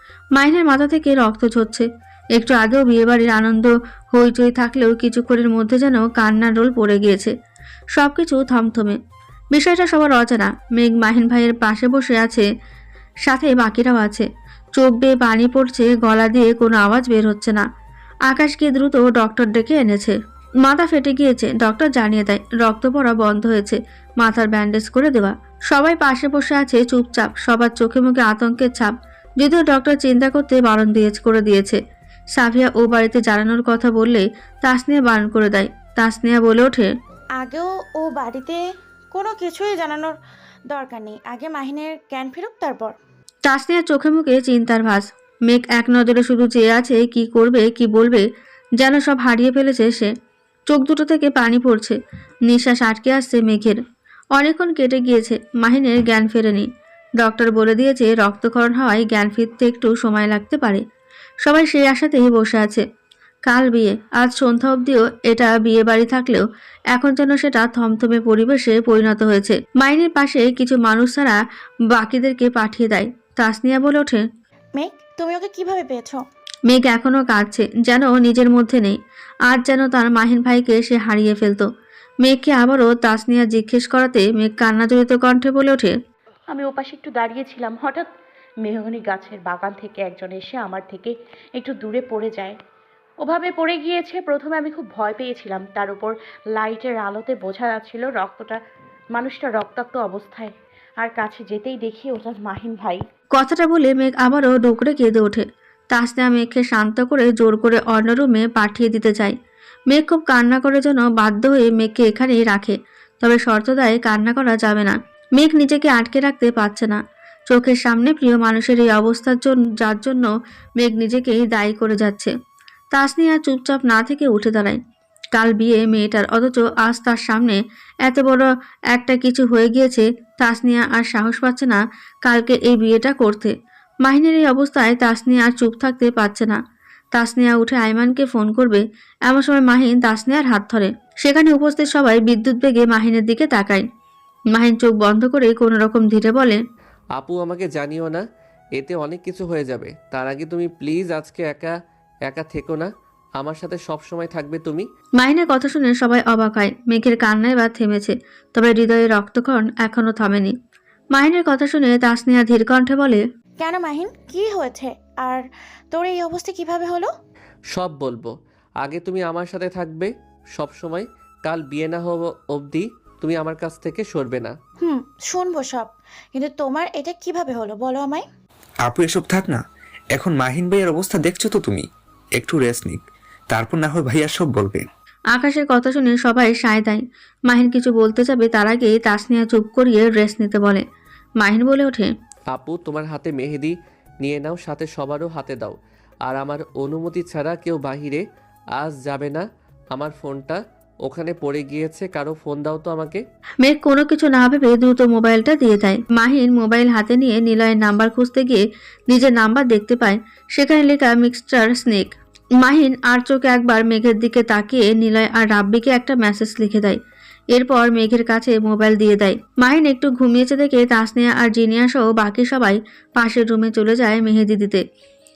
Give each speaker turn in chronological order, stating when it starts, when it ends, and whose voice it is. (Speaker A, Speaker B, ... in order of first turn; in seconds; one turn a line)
Speaker A: 0.3-7.3
Speaker A: 7.9-9.0
Speaker A: 9.5-12.4
Speaker A: 13.2-17.6
Speaker A: 18.3-31.8
Speaker A: 32.4-36.9
Speaker B: 37.4-38.6
Speaker B: 39.1-40.1
Speaker B: 40.7-42.9
Speaker A: 43.5-48.2
Speaker A: 48.8-50.1
Speaker A: 50.7-52.0
Speaker A: 52.5-53.8
Speaker A: 54.4-56.7
Speaker A: 57.2-60.8
Speaker A: 61.4-62.8
Speaker A: 63.5-71.4
Speaker A: 71.9-74.2
Speaker B: 74.8-76.2
Speaker A: 76.7-79.0
Speaker A: 79.5-81.7
Speaker A: 82.2-85.9
Speaker C: 86.5-88.1
Speaker C: 88.6-92.5
Speaker C: 93.2-98.6
Speaker C: 99.1-103.0
Speaker A: 103.3-109.3
Speaker A: 109.9-117.0
Speaker A: 117.5-120.3
Speaker A: 120.8-122.3
Speaker A: 122.9-124.8
Speaker A: 125.3-133.5
Speaker A: 134.0-136.6
Speaker A: 137.1-143.8
Speaker A: 144.5-146.6
Speaker D: 147.2-148.2
Speaker D: 148.8-151.7
Speaker D: 152.3-154.9
Speaker A: 155.2-160.5
Speaker A: 161.1-163.2
Speaker B: 163.6-167.1
Speaker D: 167.7-174.5
Speaker B: 174.8-178.2
Speaker E: 178.8-179.6
Speaker E: 180.1-181.8
Speaker E: 182.4-184.8
Speaker A: 185.3-190.8
Speaker A: 191.4-192.1
Speaker D: 192.5-198.2
Speaker D: 198.8-203.2
Speaker A: 203.6-217.0
Speaker A: 217.5-224.8